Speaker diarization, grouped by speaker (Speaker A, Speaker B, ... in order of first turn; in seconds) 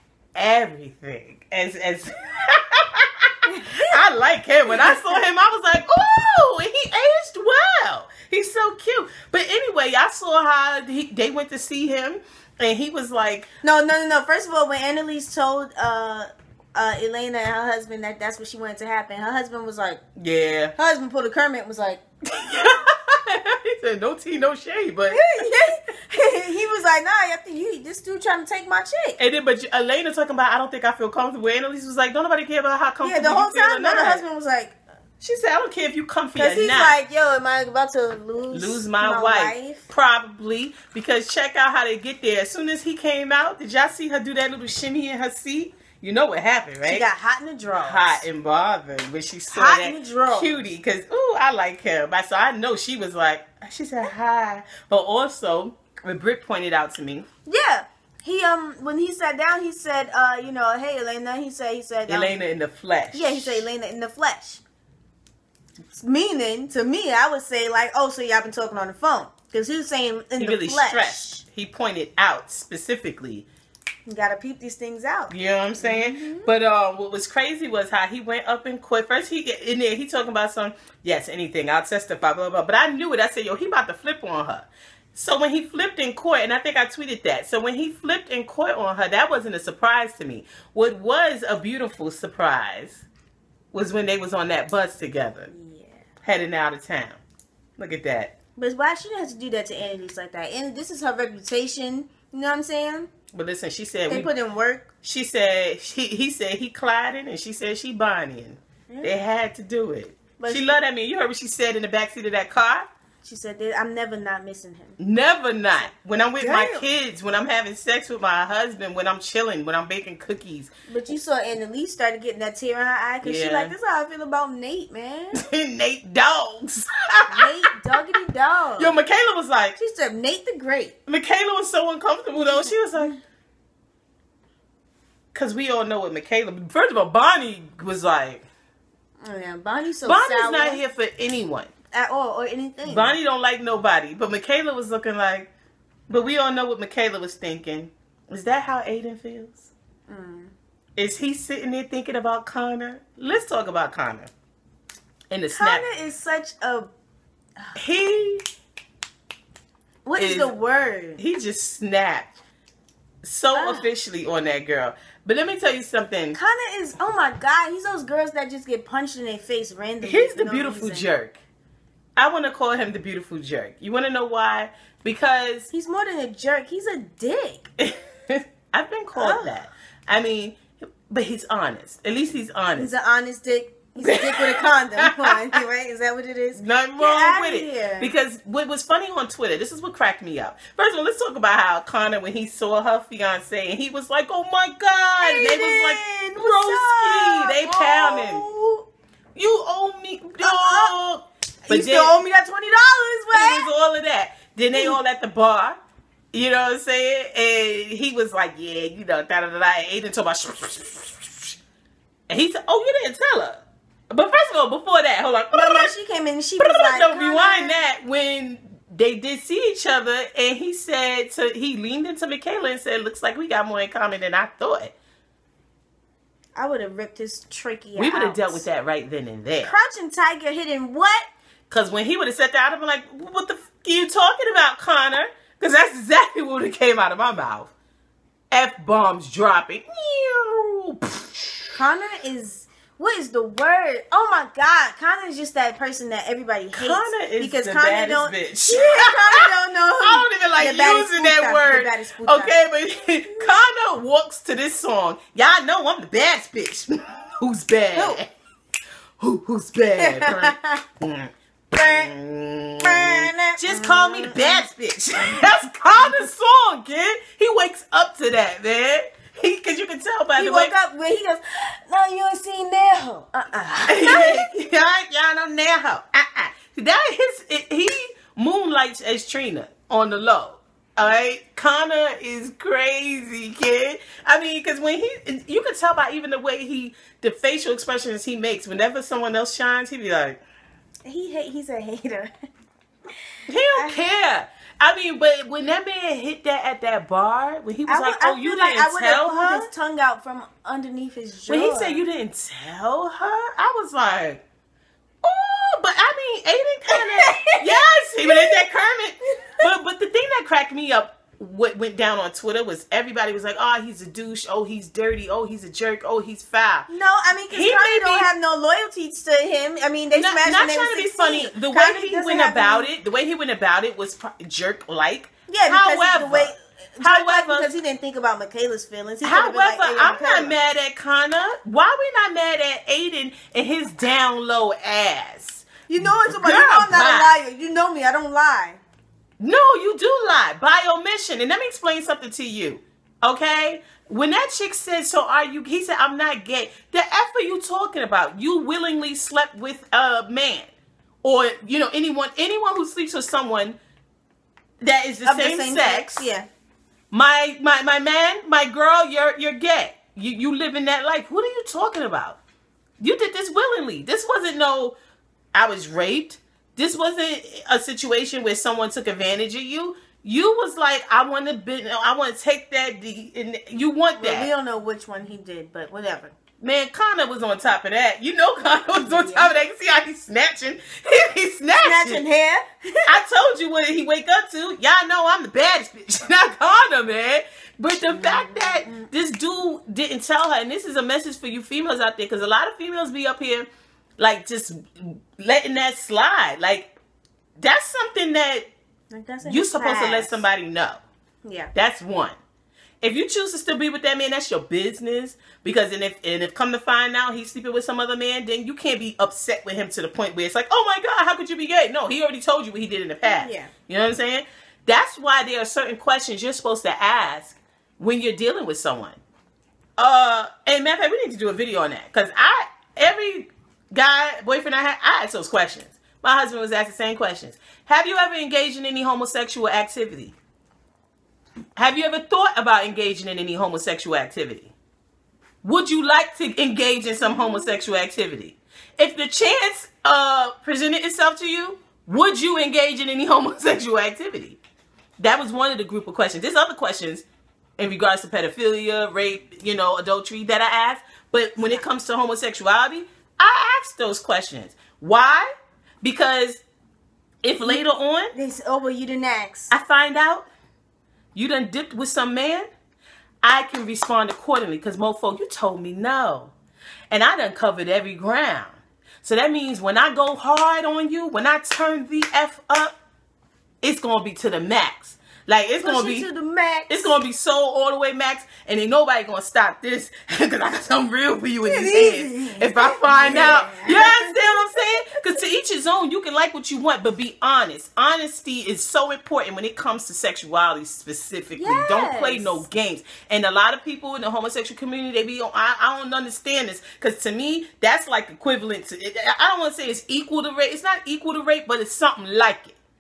Speaker A: 0.3-13.5, 20.2-20.7, 22.3-25.6, 29.2-34.2, 35.2-37.0, 38.5-47.1, 47.8-57.3, 62.1-63.7, 70.4-73.5, 75.3-93.0, 93.7-95.5, 96.2-97.2, 97.8-98.3, 103.3-104.3, 105.0-112.9, 115.0-120.7, 123.2-123.7, 125.4-128.0, 128.8-129.8, 131.1-133.1, 135.3-138.4, 140.0-141.7, 142.8-145.5, 146.1-149.7, 151.0-154.3, 155.3-155.8, 157.8-158.4, 160.2-160.5, 161.2-162.3, 163.2-166.4, 170.0-171.4, 172.2-175.7, 177.8-182.9, 184.0-185.6, 186.6-198.4, 199.3-202.2, 203.3-205.8, 206.3-211.6, 212.3-215.9, 216.6-224.9, 228.0-229.7, 231.7-237.7, 238.5-241.8, 246.7-258.3, 259.2-270.7, 273.9-290.4, 293.5-299.7, 301.5-304.4, 305.2-316.9, 317.5-318.3, 320.1-327.7, 329.2-337.4, 339.4-350.7, 351.2-353.8, 354.8-356.3, 357.1-362.4, 363.0-365.0, 365.5-374.5, 376.6-382.2, 383.1-393.7, 394.2-396.9, 397.6-398.7, 399.4-401.0, 401.8-402.4, 403.0-419.2, 420.0-430.4, 431.8-434.7, 435.6-444.6, 445.2-447.2, 447.8-455.5, 456.0-456.6, 457.4-458.3, 459.7-460.5, 461.3-462.7, 463.4-466.6, 467.1-472.9, 473.8-476.3, 476.9-502.8
Speaker B: 3.5-4.0, 4.7-5.2, 13.6-20.0, 20.8-22.7, 25.1-29.2, 33.0-34.8, 36.4-39.9, 46.9-48.2, 49.5-50.7, 57.5-62.4, 63.1-64.6, 66.0-71.4, 74.1-76.5, 95.5-96.1, 98.6-103.1, 104.1-104.9, 110.4-110.8, 113.2-115.0, 116.4-116.9, 120.9-125.4, 127.3-129.0, 129.8-131.0, 132.3-133.2, 139.2-140.8, 141.9-143.2, 150.1-150.5, 155.5-156.9, 160.1-161.2, 163.5-163.9, 166.3-171.1, 175.7-177.7, 179.1-179.5, 182.8-188.1, 195.2-198.9, 200.4-200.9, 201.7-203.7, 204.7-205.0, 215.5-217.8, 226.6-228.7, 229.6-231.3, 241.8-252.6, 260.0-260.8, 261.8-262.1, 262.8-264.7, 270.4-274.5, 291.1-292.3, 293.7-294.1, 297.9-302.0, 306.9-308.6, 309.4-309.7, 316.9-322.9, 325.5-330.6, 335.9-338.8, 355.2-356.5, 374.2-376.4, 379.1-379.5, 381.7-383.1, 388.1-389.1, 399.1-400.4, 401.4-401.7, 413.2-413.7, 437.3-437.6, 457.6-459.7, 475.8-477.2, 481.6-484.8, 491.6-492.7